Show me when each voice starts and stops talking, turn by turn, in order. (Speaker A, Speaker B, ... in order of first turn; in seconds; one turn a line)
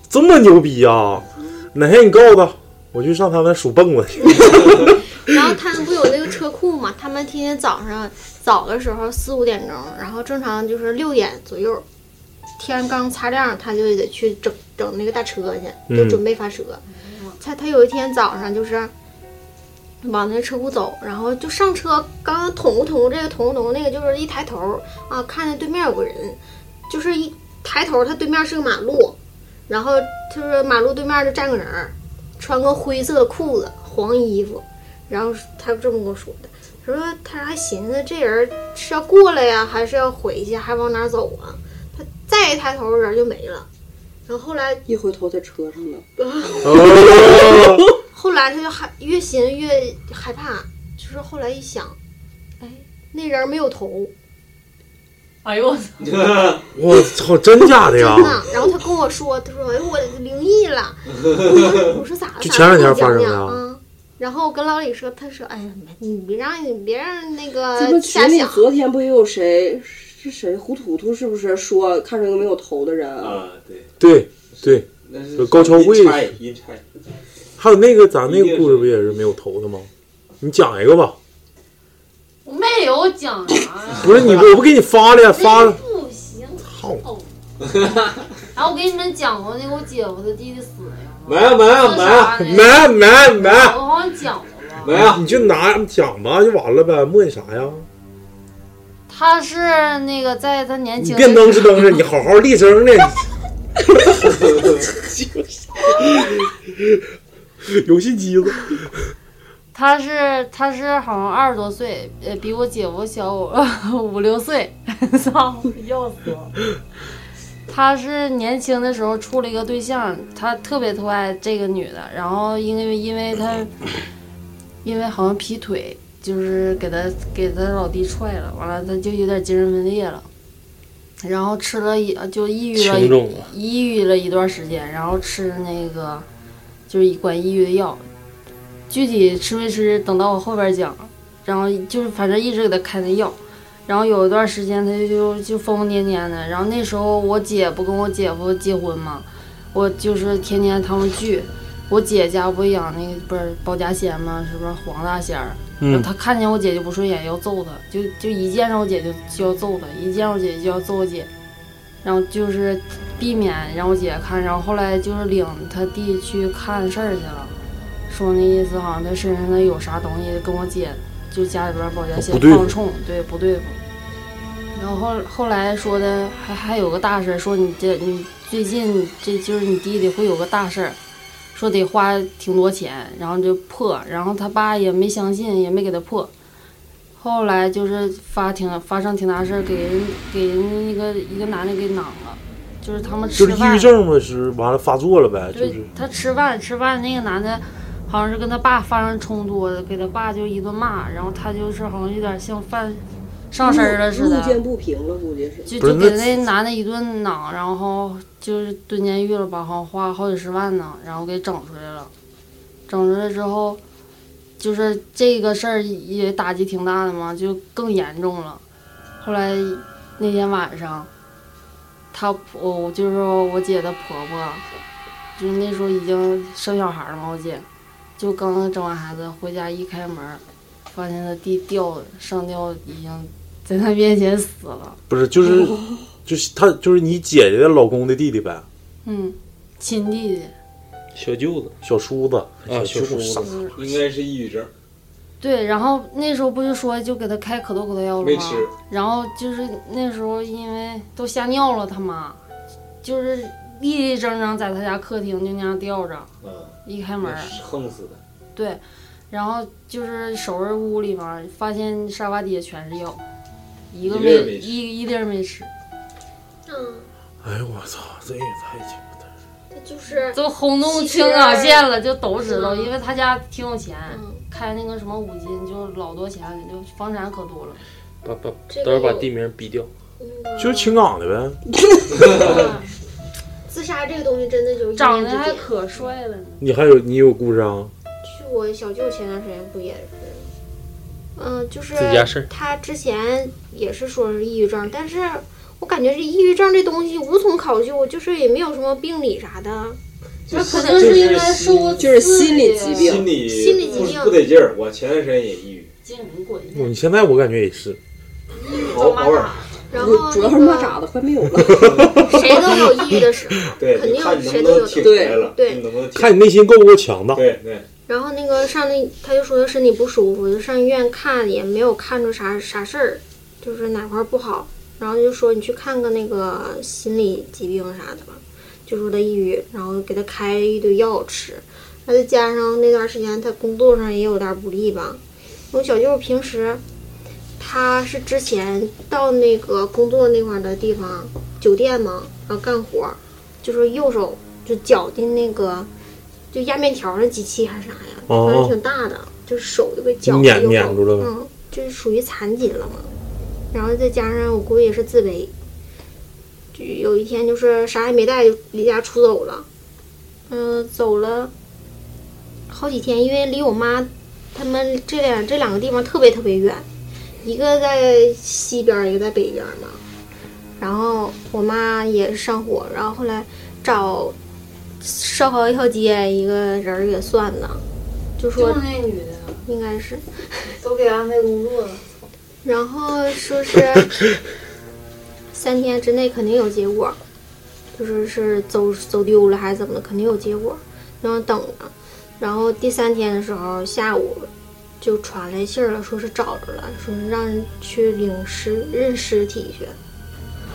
Speaker A: 0.1-5.5
Speaker B: 4.2-4.6
Speaker B: 5.2-11.8
Speaker B: 12.6-16.8
Speaker A: 15.9-16.2
Speaker C: 16.9-17.3
Speaker B: 17.4-18.9
Speaker B: 20.0-29.2
Speaker B: 29.7-43.7
Speaker B: 44.3-44.8
Speaker D: 44.9-46.0
Speaker B: 46.2-52.0
Speaker A: 46.6-47.8
Speaker B: 52.6-54.1
Speaker C: 55.4-56.3
Speaker E: 56.0-56.6
Speaker A: 56.7-58.4
Speaker B: 57.7-68.6
Speaker A: 62.4-63.6
Speaker D: 67.8-73.4
Speaker E: 73.2-73.9
Speaker A: 74.0-76.3
Speaker E: 74.6-76.8
Speaker A: 77.6-79.9
Speaker E: 78.2-79.2
Speaker A: 80.4-81.2
Speaker C: 82.4-84.4
Speaker A: 84.0-85.8
Speaker C: 85.3-87.3
Speaker A: 86.6-87.0
Speaker E: 87.6-88.2
Speaker C: 88.5-95.0
Speaker E: 91.2-92.5
Speaker A: 92.4-93.8
Speaker E: 94.8-95.5
Speaker A: 94.9-97.9
Speaker C: 99.1-102.0
Speaker A: 101.0-107.0
Speaker E: 104.4-104.8
Speaker A: 107.6-109.1
Speaker C: 109.7-116.6
Speaker C: 117.7-123.9
Speaker C: 124.8-130.3
Speaker C: 131.2-136.2
Speaker F: 132.7-133.5
Speaker C: 136.9-138.0
Speaker C: 138.9-161.3
Speaker A: 155.8-156.1
Speaker C: 162.0-167.5
Speaker C: 168.1-173.8
Speaker A: 172.2-172.7
Speaker C: 174.7-181.0
Speaker C: 181.5-186.3
Speaker C: 187.2-193.9
Speaker B: 192.9-193.4
Speaker A: 193.4-195.9
Speaker C: 195.5-204.6
Speaker D: 203.6-205.7
Speaker C: 205.7-212.1
Speaker A: 205.8-206.4
Speaker C: 212.9-213.8
Speaker C: 214.6-218.6
Speaker C: 219.2-221.1
Speaker C: 222.1-224.6
Speaker C: 225.4-227.7
Speaker C: 228.2-235.0
Speaker A: 235.1-238.7
Speaker C: 239.0-240.5
Speaker F: 241.1-241.7
Speaker A: 241.8-243.5
Speaker F: 242.7-243.5
Speaker C: 243.4-243.9
Speaker E: 243.7-244.7
Speaker C: 245.4-252.4
Speaker E: 248.2-248.7
Speaker C: 253.0-256.3
Speaker E: 256.4-258.2
Speaker C: 256.8-257.6
Speaker C: 258.5-263.2
Speaker C: 263.9-265.7
Speaker E: 264.0-264.8
Speaker B: 266.6-267.1
Speaker A: 267.4-269.1
Speaker B: 269.7-272.9
Speaker C: 270.3-277.8
Speaker B: 274.1-274.4
Speaker F: 278.2-279.9
Speaker B: 278.7-279.3
Speaker B: 280.2-281.0
Speaker A: 280.6-281.6
Speaker B: 282.2-282.8
Speaker C: 282.4-282.8
Speaker B: 283.7-285.7
Speaker C: 284.9-286.6
Speaker A: 286.6-287.9
Speaker B: 288.2-290.5
Speaker B: 291.4-300.0
Speaker F: 291.9-292.5
Speaker E: 300.5-302.1
Speaker C: 300.5-304.2
Speaker D: 302.0-303.3
Speaker E: 303.0-305.9
Speaker B: 303.3-304.5
Speaker C: 306.0-306.9
Speaker A: 306.7-308.0
Speaker C: 308.5-310.0
Speaker E: 308.8-309.6
Speaker B: 309.9-311.0
Speaker D: 310.0-312.0
Speaker E: 311.8-312.2
Speaker A: 311.8-313.2
Speaker B: 312.2-315.9
Speaker E: 313.8-316.3
Speaker D: 315.0-315.4
Speaker A: 316.1-317.4
Speaker E: 317.3-317.9
Speaker B: 318.1-336.8
Speaker B: 337.6-345.9
Speaker B: 346.5-353.1
Speaker A: 348.3-348.7
Speaker A: 350.2-351.3
Speaker B: 353.7-355.5
Speaker B: 356.7-359.7
Speaker B: 360.5-361.5
Speaker B: 362.7-366.9
Speaker B: 367.4-370.0
Speaker B: 370.8-374.4
Speaker B: 375.0-377.8
Speaker B: 378.4-378.8
Speaker C: 378.5-379.6
Speaker B: 379.6-380.7
Speaker C: 380.7-382.0
Speaker B: 382.6-384.1
Speaker B: 385.5-387.2
Speaker B: 387.9-394.5
Speaker B: 395.0-400.0